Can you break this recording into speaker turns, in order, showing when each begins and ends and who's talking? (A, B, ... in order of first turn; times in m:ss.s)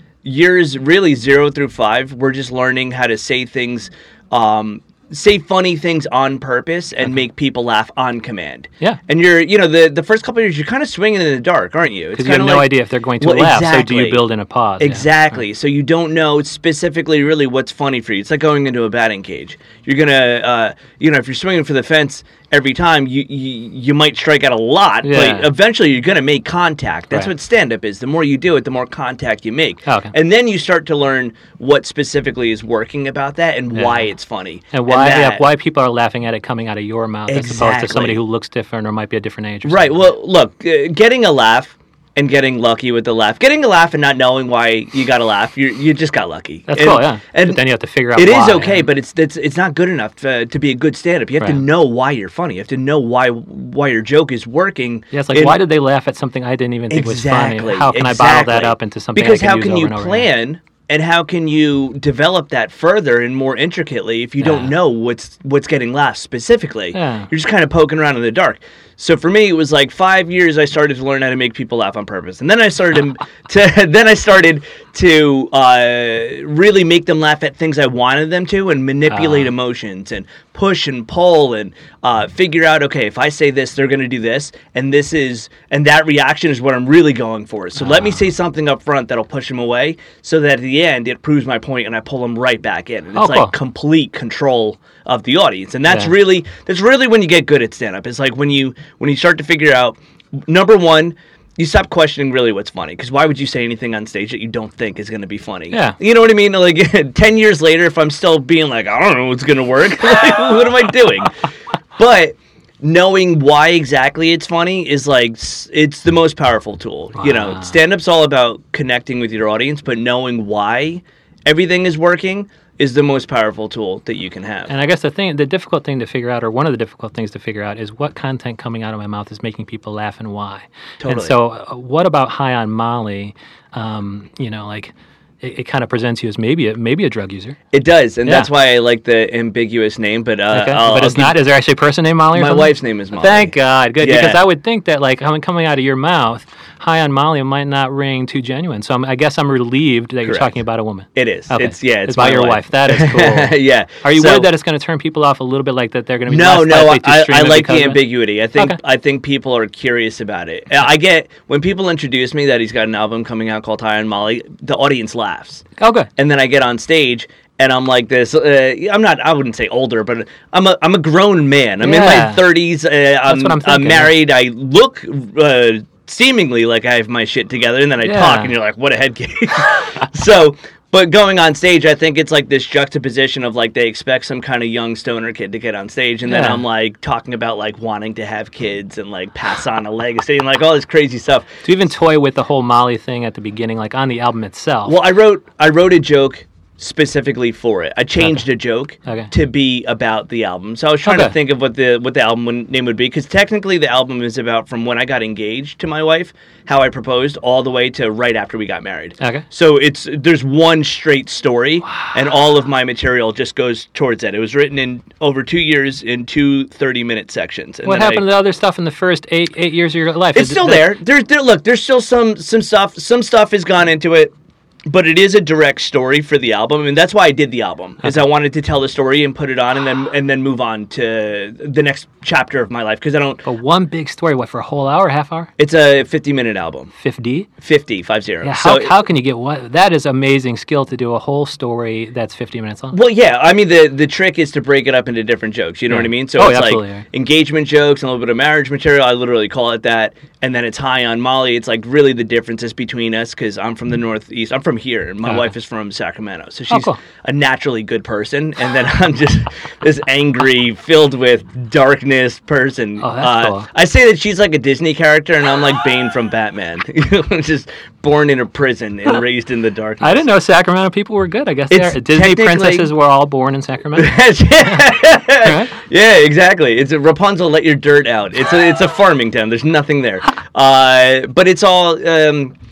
0:00.2-0:14.2 A
0:12.2-0:15.1 B
0:14.8-0:35.5 A
0:25.0-0:25.5 B
0:29.9-0:30.1 B
0:33.7-0:34.1 B
0:34.7-0:40.1 B
0:37.3-0:38.2 A
0:39.7-0:55.6 A
0:46.7-0:48.9 B
0:55.1-1:00.3 B
0:56.9-1:51.4 A
1:04.4-1:04.8 B
1:06.9-1:07.3 B
1:19.1-1:19.5 B
1:27.8-1:28.2 B
1:33.2-1:33.5 B
1:35.9-1:36.1 B
1:45.7-1:46.0 B
1:52.0-2:04.7 A
1:57.2-1:57.8 B
2:04.7-2:17.6 B
2:11.0-2:11.4 A
2:17.7-2:21.4 A
2:18.2-2:18.5 B
2:20.5-2:38.0 B
2:22.3-2:24.4 A
2:30.2-2:30.6 A
2:31.2-2:34.5 A
2:36.3-3:11.5 A
2:45.8-2:46.1 B
2:51.8-2:52.5 B
2:53.3-2:54.2 B
2:58.0-2:58.5 B
3:06.2-3:06.6 B
3:11.6-3:15.0 B
3:14.9-3:38.2 A
3:19.1-3:19.3 B
3:21.0-3:21.4 B
3:29.2-3:29.4 B
3:37.8-3:41.0 B
3:40.4-3:44.3 A
3:44.9-3:53.4 A
3:53.4-3:55.5 B
3:55.6-3:56.9 A
3:57.0-3:57.5 B
3:57.6-3:59.0 A
3:58.4-4:03.0 B
4:02.9-4:30.3 A
4:05.9-4:07.0 B
4:16.7-4:17.0 B
4:23.0-4:23.7 B
4:30.0-4:34.9 B
4:31.7-4:32.9 A
4:34.0-4:42.6 A
4:35.4-4:35.8 B